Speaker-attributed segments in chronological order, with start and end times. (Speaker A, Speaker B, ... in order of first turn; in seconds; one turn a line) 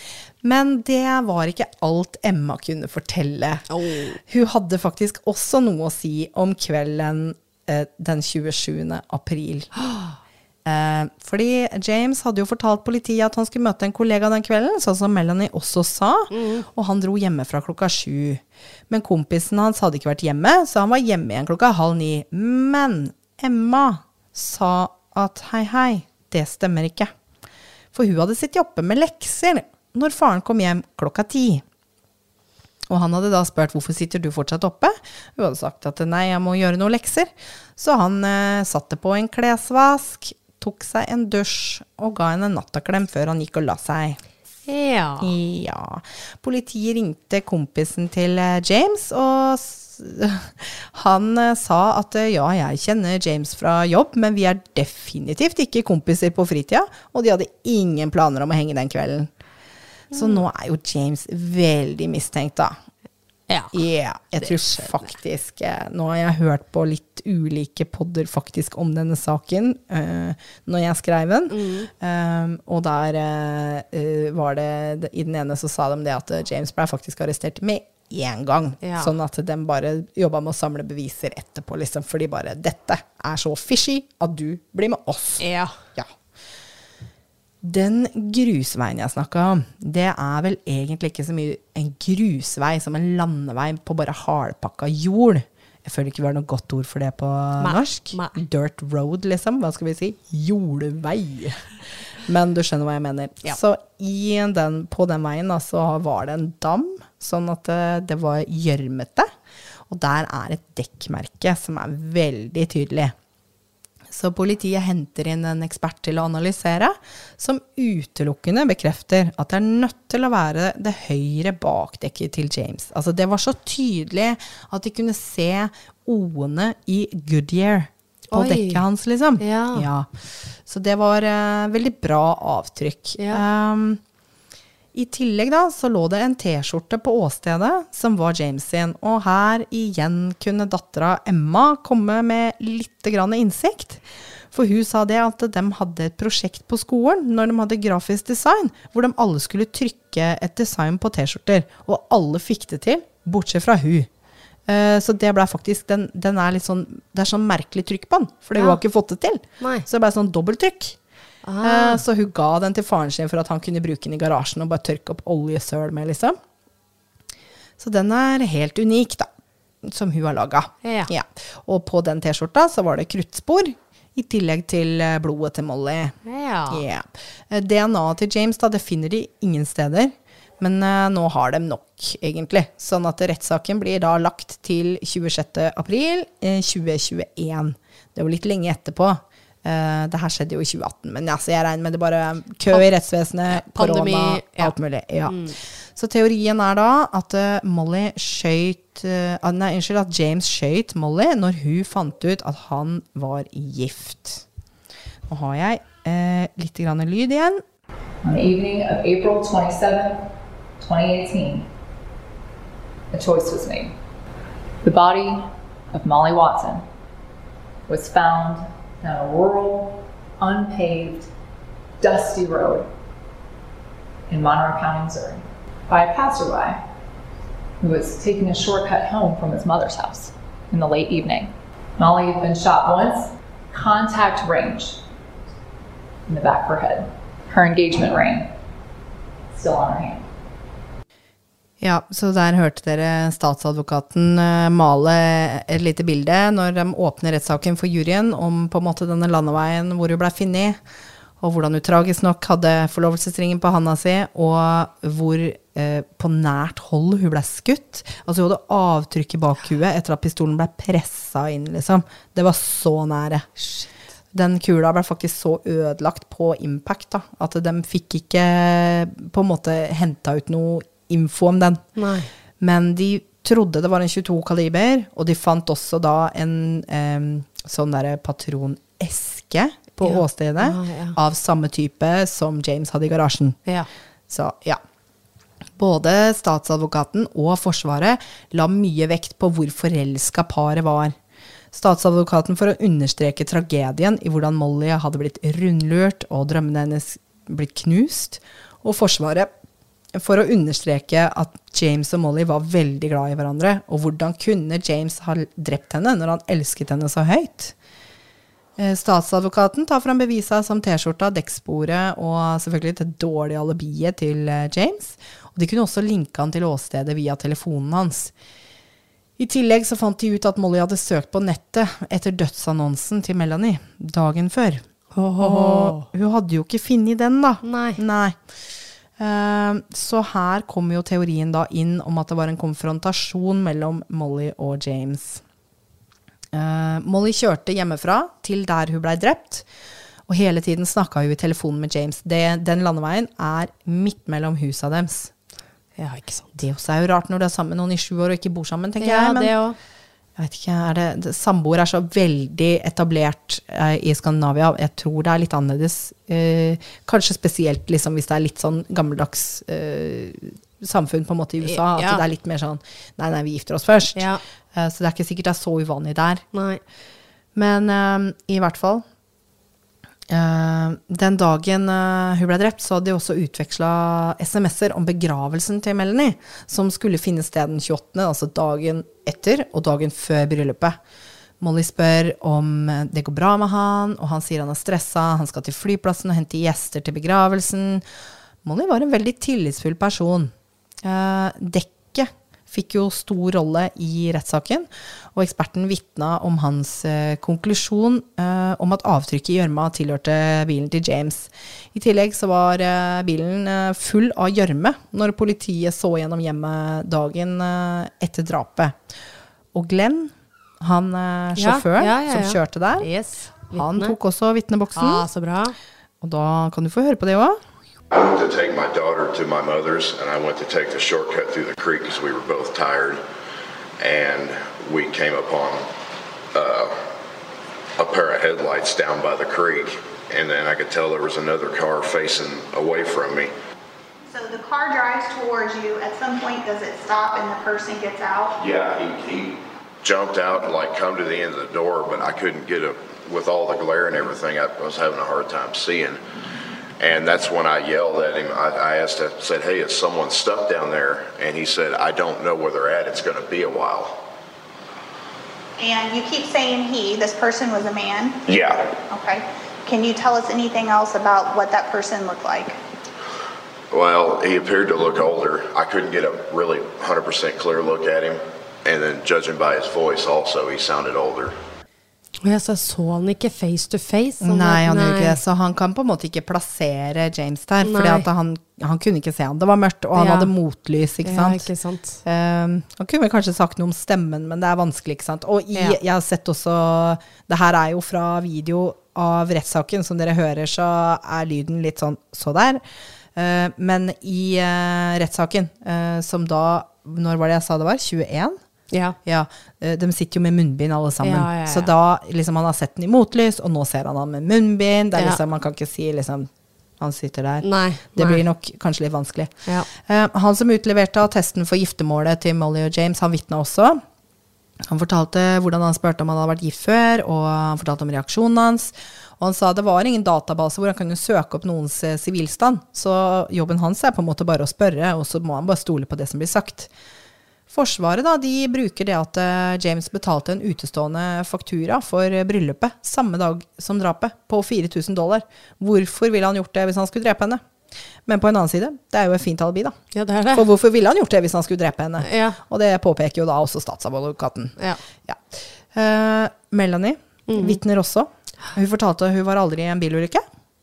Speaker A: 0.4-3.6
Speaker B: 3.7-4.2
Speaker A: 4.2-9.7
Speaker B: 9.8-10.1
Speaker A: 10.7-27.1
Speaker B: 16.3-16.7
Speaker A: 27.9-31.6
Speaker A: 32.9-44.2
Speaker B: 44.7-45.3
Speaker A: 45.2-59.3
Speaker B: 60.1-60.4
Speaker A: 60.1-62.8
Speaker B: 63.5-63.8
Speaker A: 63.7-85.4
Speaker B: 64.3-65.2
Speaker B: 71.5-71.9
Speaker B: 78.8-79.1
Speaker B: 85.4-85.8
Speaker A: 87.6-101.7
Speaker B: 97.6-98.4
Speaker A: 102.2-109.3
Speaker A: 109.9-113.1
Speaker A: 114.1-130.1
Speaker B: 128.3-128.8
Speaker B: 129.4-129.9
Speaker A: 130.7-134.0
Speaker B: 133.2-133.4
Speaker A: 134.9-154.1
Speaker A: 154.7-161.0
Speaker B: 159.6-159.9
Speaker B: 161.4-162.0
Speaker A: 161.6-166.4
Speaker A: 167.8-169.3
Speaker A: 169.8-176.2
Speaker B: 170.8-171.1
Speaker B: 176.2-176.8
Speaker A: 176.7-204.4
Speaker B: 193.5-194.7
Speaker B: 195.3-195.6
Speaker A: 205.3-207.6
Speaker C: 208.2-210.2
Speaker C: 210.8-211.7
Speaker C: 213.1-213.9
Speaker C: 214.8-216.8
Speaker C: 217.9-221.3
Speaker C: 222.0-222.9
Speaker C: 224.3-226.8
Speaker C: 227.8-235.0
Speaker C: 236.3-238.5
Speaker C: 239.5-240.3
Speaker A: 241.8-250.8
Speaker A: 251.4-263.5
Speaker B: 263.6-263.9
Speaker A: 264.3-271.9
Speaker B: 272.0-272.3
Speaker A: 272.6-283.6
Speaker B: 280.0-281.2
Speaker A: 284.3-284.8
Speaker A: 285.8-291.2
Speaker A: 291.7-299.5
Speaker A: 300.1-307.8
Speaker A: 308.8-318.3
Speaker A: 319.4-324.8
Speaker B: 325.1-326.1
Speaker A: 325.4-328.4
Speaker B: 327.6-328.0
Speaker A: 329.2-335.4
Speaker A: 336.5-339.7
Speaker A: 340.3-345.3
Speaker B: 346.0-346.6
Speaker A: 346.6-349.5
Speaker B: 349.0-349.8
Speaker A: 350.4-366.4
Speaker B: 361.6-362.2
Speaker B: 364.2-364.4
Speaker B: 366.5-366.8
Speaker A: 367.6-369.0
Speaker A: 370.3-381.0
Speaker A: 381.6-388.0
Speaker A: 388.6-390.5
Speaker A: 391.0-409.0
Speaker A: 409.7-413.1
Speaker B: 411.6-414.2
Speaker A: 413.7-415.3
Speaker B: 414.9-415.8
Speaker A: 416.2-417.6
Speaker D: 418.1-423.2
Speaker D: 424.0-425.9
Speaker D: 426.5-426.9
Speaker D: 428.0-433.5
Speaker E: 434.3-438.6
Speaker D: 438.6-446.2
Speaker D: 447.0-454.2
Speaker E: 455.8-458.4
Speaker D: 458.5-458.9
Speaker E: 459.1-462.8
Speaker D: 463.9-471.6
Speaker B: 472.4-475.4
Speaker A: 474.4-481.7
Speaker B: 477.8-478.3
Speaker B: 480.2-480.5
Speaker B: 481.2-482.2
Speaker A: 482.2-492.8
Speaker A: 493.4-498.6
Speaker B: 498.9-499.2
Speaker A: 499.2-514.0
Speaker B: 501.2-501.9
Speaker B: 507.6-508.4
Speaker A: 514.8-526.9
Speaker A: 527.7-537.6
Speaker A: 538.3-540.0
Speaker B: 540.1-540.7
Speaker A: 540.5-550.4
Speaker B: 542.2-542.6
Speaker B: 547.5-547.8